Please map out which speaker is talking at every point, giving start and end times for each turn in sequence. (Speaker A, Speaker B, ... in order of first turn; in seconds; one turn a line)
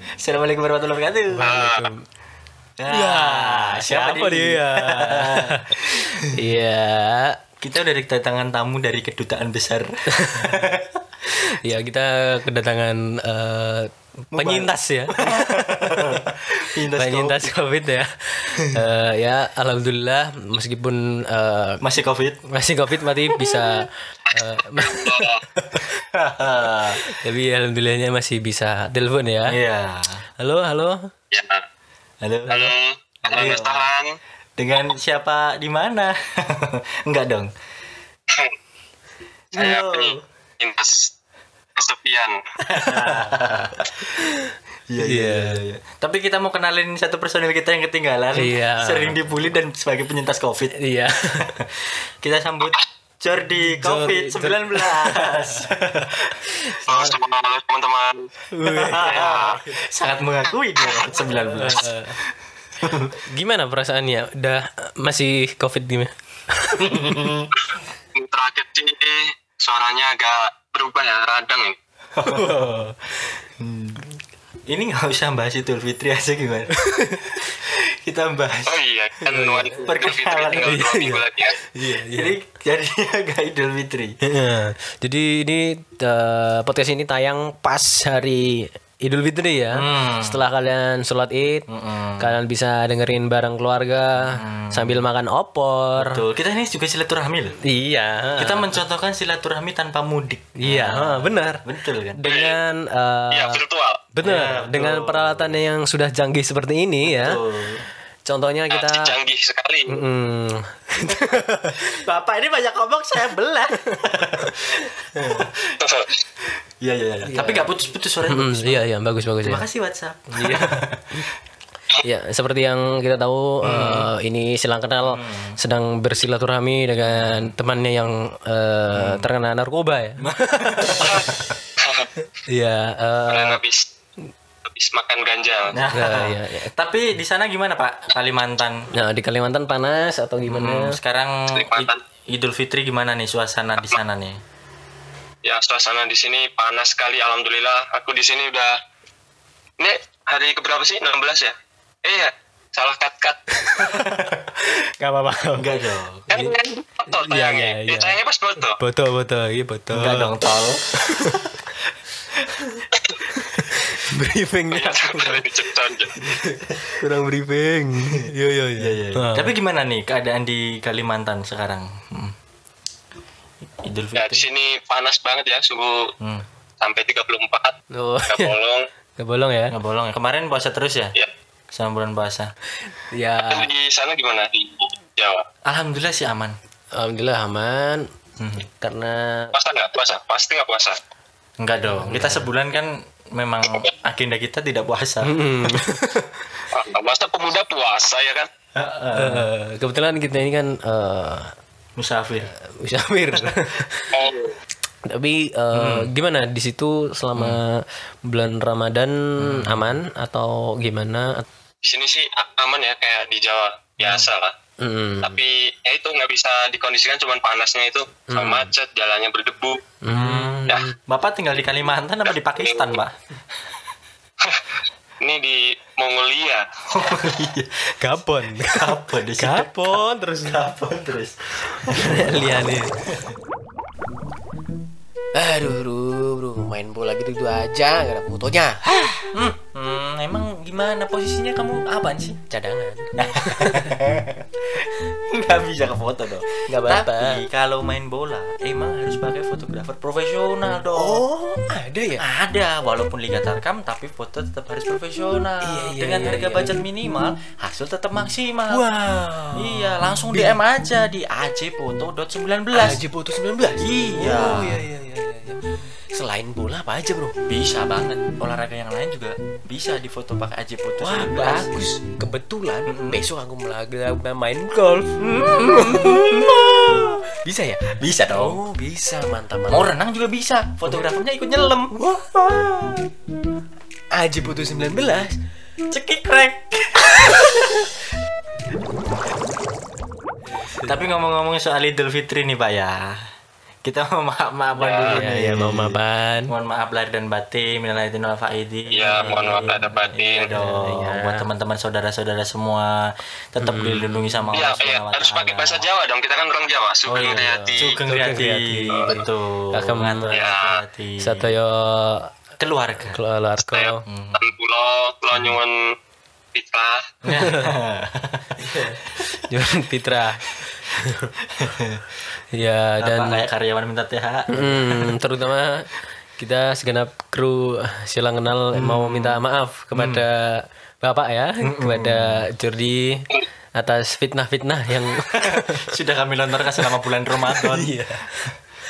Speaker A: 0.2-1.6
Speaker B: 1.4-2.0
Speaker C: 1.4-1.9
Speaker A: 2.8-6.2
Speaker B: 2.9-7.4
Speaker A: 7.6-10.9
Speaker B: 10.1-10.7
Speaker B: 11.6-15.2
Speaker A: 14.3-17.6
Speaker B: 16.9-21.8
Speaker A: 21.8-22.4
Speaker B: 22.5-25.1
Speaker C: 24.3-25.4
Speaker A: 25.9-27.0
Speaker B: 27.1-29.6
Speaker A: 29.5-30.2
Speaker B: 30.4-31.1
Speaker C: 31.3-31.6
Speaker A: 32.2-33.9
Speaker C: 32.5-34.2
Speaker A: 34.6-37.5
Speaker A: 39.5-40.2
Speaker C: 39.5-41.1
Speaker C: 41.8-42.4
Speaker A: 42.7-44.1
Speaker B: 42.8-43.4
Speaker B: 44.1-44.3
Speaker A: 44.9-50.8
Speaker B: 45.0-45.6
Speaker B: 48.3-49.2
Speaker B: 50.8-51.6
Speaker A: 51.4-56.4
Speaker B: 53.6-55.7
Speaker B: 56.5-57.2
Speaker C: 56.9-58.3
Speaker B: 58.5-59.8
Speaker A: 58.6-61.9
Speaker C: 58.9-59.6
Speaker C: 60.8-61.1
Speaker B: 61.2-62.2
Speaker A: 62.8-63.1
Speaker B: 63.3-67.1
Speaker A: 66.8-67.5
Speaker C: 68.2-71.8
Speaker A: 72.2-72.7
Speaker B: 72.2-72.9
Speaker A: 73.6-74.0
Speaker A: 74.7-76.7
Speaker B: 76.7-77.4
Speaker A: 77.3-78.8
Speaker C: 78.7-81.6
Speaker B: 79.2-79.8
Speaker A: 79.8-80.8
Speaker B: 80.6-82.4
Speaker A: 82.0-84.1
Speaker B: 84.2-91.7
Speaker A: 89.7-90.4
Speaker A: 91.7-92.4
Speaker B: 92.2-96.2
Speaker A: 94.2-95.0
Speaker A: 96.0-97.6
Speaker B: 97.7-98.8
Speaker A: 98.4-102.2
Speaker B: 100.6-103.6
Speaker C: 102.2-102.6
Speaker C: 103.3-104.0
Speaker B: 104.2-107.4
Speaker A: 104.2-105.6
Speaker A: 107.0-107.8
Speaker B: 108.2-109.1
Speaker C: 108.7-110.0
Speaker B: 109.9-111.8
Speaker A: 111.9-115.7
Speaker C: 115.8-116.2
Speaker A: 116.8-118.8
Speaker B: 117.3-117.7
Speaker B: 118.3-119.7
Speaker A: 119.4-121.2
Speaker B: 120.3-121.2
Speaker B: 122.0-131.1
Speaker A: 123.6-124.1
Speaker A: 125.0-125.6
Speaker A: 127.0-127.5
Speaker A: 129.0-129.3
Speaker A: 130.2-131.6
Speaker C: 131.8-132.1
Speaker B: 132.5-133.6
Speaker C: 133.3-133.9
Speaker C: 134.7-135.8
Speaker A: 135.7-138.9
Speaker B: 135.9-136.7
Speaker B: 138.9-141.0
Speaker A: 140.5-144.4
Speaker C: 141.5-142.0
Speaker C: 145.4-148.7
Speaker C: 149.8-153.4
Speaker B: 153.6-155.7
Speaker A: 155.6-156.3
Speaker C: 156.3-158.8
Speaker B: 157.1-158.2
Speaker B: 158.8-160.3
Speaker A: 159.9-160.8
Speaker B: 160.9-161.5
Speaker B: 163.4-165.4
Speaker C: 164.7-166.1
Speaker B: 166.3-169.5
Speaker A: 168.8-172.3
Speaker A: 173.8-174.4
Speaker C: 174.2-176.1
Speaker C: 176.8-177.8
Speaker B: 177.9-178.6
Speaker C: 178.3-178.8
Speaker B: 179.2-179.8
Speaker A: 179.7-181.2
Speaker A: 181.7-182.5
Speaker B: 183.1-183.7
Speaker C: 183.4-185.4
Speaker A: 185.7-186.6
Speaker B: 187.0-188.1
Speaker A: 188.4-188.7
Speaker B: 188.8-189.6
Speaker C: 189.5-191.0
Speaker A: 191.6-195.3
Speaker B: 191.9-192.5
Speaker C: 193.6-193.9
Speaker B: 195.2-196.4
Speaker C: 196.7-198.5
Speaker A: 198.8-199.5
Speaker B: 199.2-201.5
Speaker A: 202.0-202.5
Speaker B: 202.5-204.1
Speaker C: 204.1-204.6
Speaker B: 205.1-211.4
Speaker A: 205.7-206.1
Speaker A: 209.4-209.9
Speaker C: 211.8-214.5
Speaker A: 214.0-214.3
Speaker B: 214.8-215.4
Speaker C: 215.2-219.8
Speaker B: 218.3-218.7
Speaker B: 220.0-221.0
Speaker A: 220.1-223.1
Speaker C: 222.3-223.0
Speaker C: 225.2-226.6
Speaker A: 226.9-227.9
Speaker B: 228.0-230.6
Speaker A: 228.6-232.6
Speaker B: 231.7-232.9
Speaker A: 233.1-233.3
Speaker B: 235.3-239.3
Speaker A: 239.3-242.4
Speaker B: 242.5-244.0
Speaker A: 243.2-251.2
Speaker B: 246.7-247.4
Speaker B: 250.9-252.2
Speaker A: 252.2-258.9
Speaker B: 255.6-256.8
Speaker B: 258.7-260.6
Speaker A: 259.5-263.0
Speaker B: 262.7-267.4
Speaker A: 263.8-264.8
Speaker A: 267.5-271.7
Speaker B: 271.0-275.1
Speaker A: 272.9-273.2
Speaker A: 275.2-277.2
Speaker B: 275.7-276.3
Speaker B: 277.3-279.9
Speaker A: 278.0-278.6
Speaker A: 279.7-283.1
Speaker B: 284.1-285.4
Speaker A: 285.9-287.8
Speaker B: 290.6-291.0
Speaker A: 290.8-293.2
Speaker A: 293.8-305.9
Speaker C: 294.8-295.2
Speaker B: 295.0-296.5
Speaker C: 298.9-300.5
Speaker B: 300.5-301.5
Speaker B: 303.6-304.6
Speaker C: 304.5-308.0
Speaker A: 307.1-311.6
Speaker B: 307.2-310.4
Speaker C: 308.9-309.2
Speaker C: 310.3-310.8
Speaker B: 311.2-312.3
Speaker A: 312.6-313.2
Speaker B: 313.1-314.0
Speaker C: 313.6-315.8
Speaker A: 314.1-314.5
Speaker C: 316.5-317.1
Speaker A: 317.2-318.6
Speaker B: 317.3-317.7
Speaker B: 318.6-321.3
Speaker A: 321.6-322.0
Speaker B: 322.5-323.4
Speaker A: 323.0-325.1
Speaker B: 324.5-335.8
Speaker A: 328.8-329.4
Speaker A: 329.9-330.2
Speaker A: 331.6-332.4
Speaker A: 335.3-337.9
Speaker B: 337.3-338.3